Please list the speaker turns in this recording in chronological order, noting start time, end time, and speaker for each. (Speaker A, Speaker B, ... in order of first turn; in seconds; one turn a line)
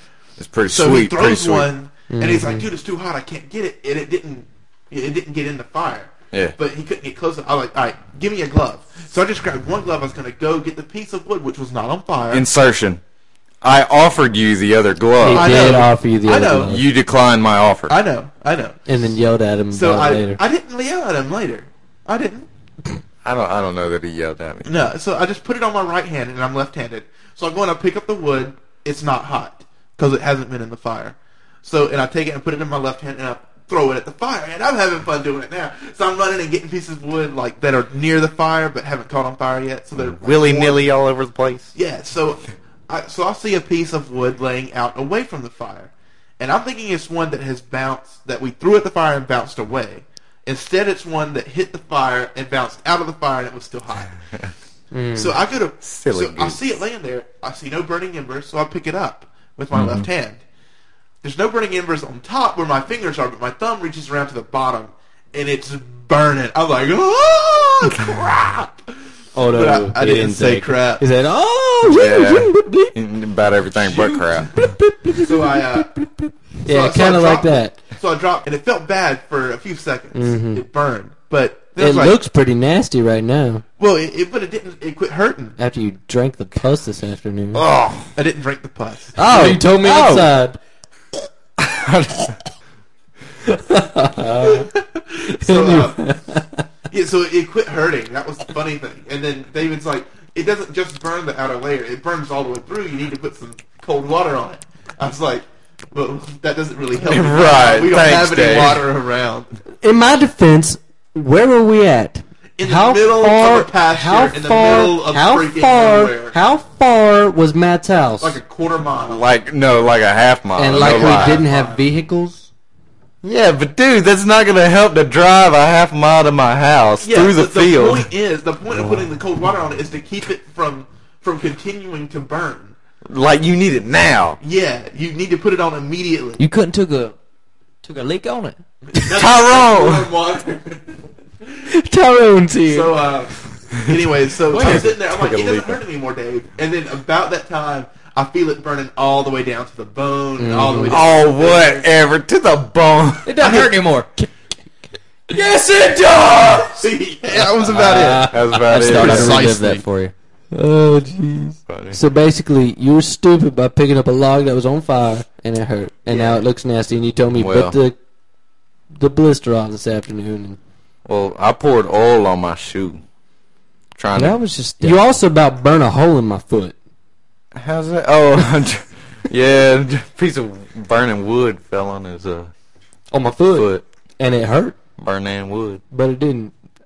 Speaker A: 0.4-1.7
Speaker B: 0.7-12.4
Speaker C: 2.1-2.7
Speaker A: 12.3-13.0
Speaker A: 13.6-15.8
Speaker C: 15.2-16.8
Speaker B: 15.3-16.8
Speaker A: 16.6-17.9
Speaker B: 17.9-18.8
Speaker C: 18.9-20.4
Speaker B: 19.7-22.5
Speaker A: 23.2-24.7
Speaker B: 24.6-40.9
Speaker A: 39.9-41.7
Speaker B: 41.7-54.1
Speaker C: 54.9-55.4
Speaker B: 55.1-60.4
Speaker A: 55.8-56.6
Speaker A: 59.7-60.1
Speaker B: 61.2-68.8
Speaker C: 69.3-72.9
Speaker B: 69.4-71.0
Speaker A: 71.8-74.7
Speaker B: 73.8-74.2
Speaker C: 74.5-77.8
Speaker B: 75.2-75.9
Speaker B: 76.7-82.2
Speaker C: 80.1-80.6
Speaker C: 81.8-83.6
Speaker B: 83.8-85.5
Speaker C: 85.6-87.6
Speaker A: 87.5-88.1
Speaker B: 88.2-89.1
Speaker C: 89.2-90.6
Speaker D: 89.2-90.3
Speaker A: 91.6-92.3
Speaker C: 93.5-94.7
Speaker B: 94.4-96.1
Speaker C: 95.3-96.4
Speaker B: 96.9-109.5
Speaker A: 107.0-108.8
Speaker C: 109.8-118.4
Speaker B: 112.6-116.3
Speaker B: 118.2-119.2
Speaker A: 119.0-121.4
Speaker C: 120.5-122.5
Speaker B: 120.7-121.9
Speaker A: 123.2-128.1
Speaker B: 127.0-132.7
Speaker A: 133.1-134.4
Speaker B: 134.4-136.4
Speaker D: 136.4-137.2
Speaker D: 137.8-138.6
Speaker B: 138.9-141.0
Speaker A: 139.1-140.1
Speaker C: 141.7-142.9
Speaker B: 142.6-151.9
Speaker A: 144.5-145.8
Speaker C: 150.4-151.0
Speaker A: 150.9-153.7
Speaker D: 153.2-154.3
Speaker D: 155.3-156.8
Speaker B: 156.8-158.3
Speaker C: 157.7-159.8
Speaker A: 158.0-159.5
Speaker D: 158.7-160.1
Speaker C: 160.5-167.9
Speaker A: 161.7-162.0
Speaker B: 166.1-166.4
Speaker A: 167.3-167.8
Speaker C: 168.9-170.6
Speaker A: 171.1-173.0
Speaker A: 174.0-174.4
Speaker D: 174.1-175.0
Speaker C: 174.8-176.7
Speaker A: 177.5-182.5
Speaker C: 183.1-184.7
Speaker A: 183.5-183.8
Speaker A: 185.0-185.8
Speaker C: 185.9-186.5